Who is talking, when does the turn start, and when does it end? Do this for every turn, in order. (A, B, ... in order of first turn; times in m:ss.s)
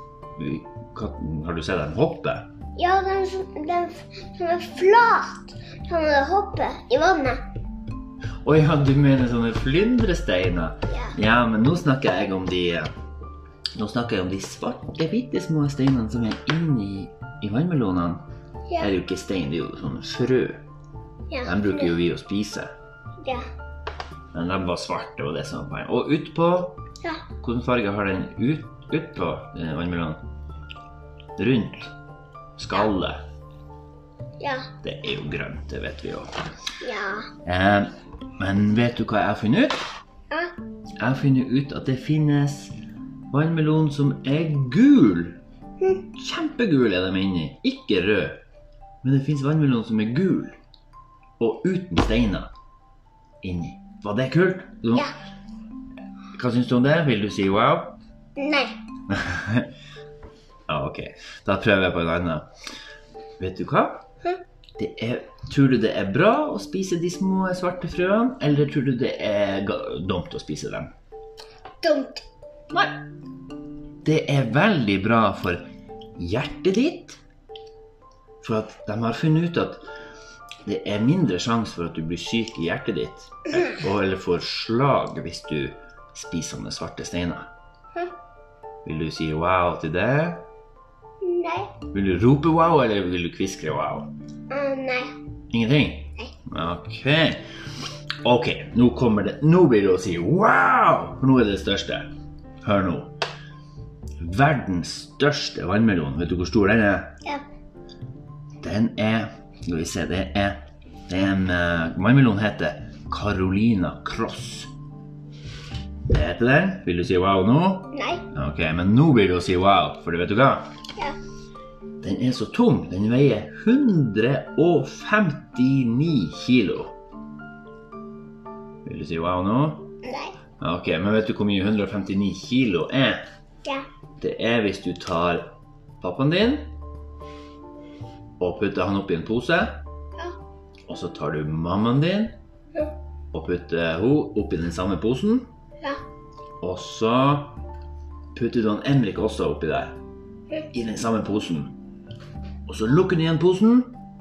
0:00.4-0:02.5 A
0:02.8-0:07.4 B
0:08.4-0:12.9 A
0:13.8-0:18.2 A
0:18.8-0:20.6 A
0:21.3-0:21.9 B
0:21.4-0:22.7 A
0:24.3-0:26.8 A
0:27.4-0:30.2 A
0:31.4-0:31.9 A
0:32.6-0:33.2 A
0:34.4-0:34.7 B
0:34.8-0:36.3 A
0:36.8-0:37.3 B
0:37.4-0:39.9 A
0:41.0-0:42.7 A
0:43.3-0:45.4 A
0:46.1-0:48.4 A
0:49.0-0:50.6 A
0:51.4-0:52.5 A
0:53.4-0:55.1 A
0:56.4-0:58.0 A
0:58.4-0:58.7 B
0:59.1-0:59.7 A
1:00.7-1:02.5 A
1:03.4-1:04.1 A
1:04.8-1:10.9 A
1:11.8-1:12.9 B
1:14.0-1:15.7 A
1:16.2-1:17.2 A
1:18.4-1:19.8 A
1:20.6-1:27.5 A
1:28.8-1:30.4 A
1:31.2-1:31.7 B
1:31.9-1:34.1 A
1:34.5-1:35.1 B
1:35.5-1:37.4 A
1:38.2-1:42.1 A
1:42.6-1:43.2 A
1:44.2-1:47.1 A
1:48.6-1:54.7 A
1:56.1-2:00.7 A
1:57.9-1:58.2 B
2:02.0-2:07.0 A
2:08.8-2:09.9 A
2:10.0-2:10.3 B
2:10.6-2:13.2 A
2:14.2-2:16.7 A
2:18.4-2:19.8 A
2:20.9-2:22.4 A
2:23.3-2:25.5 A
2:26.6-2:27.6 A
2:28.3-2:30.0 A
2:30.7-2:31.8 A
2:32.7-2:34.0 A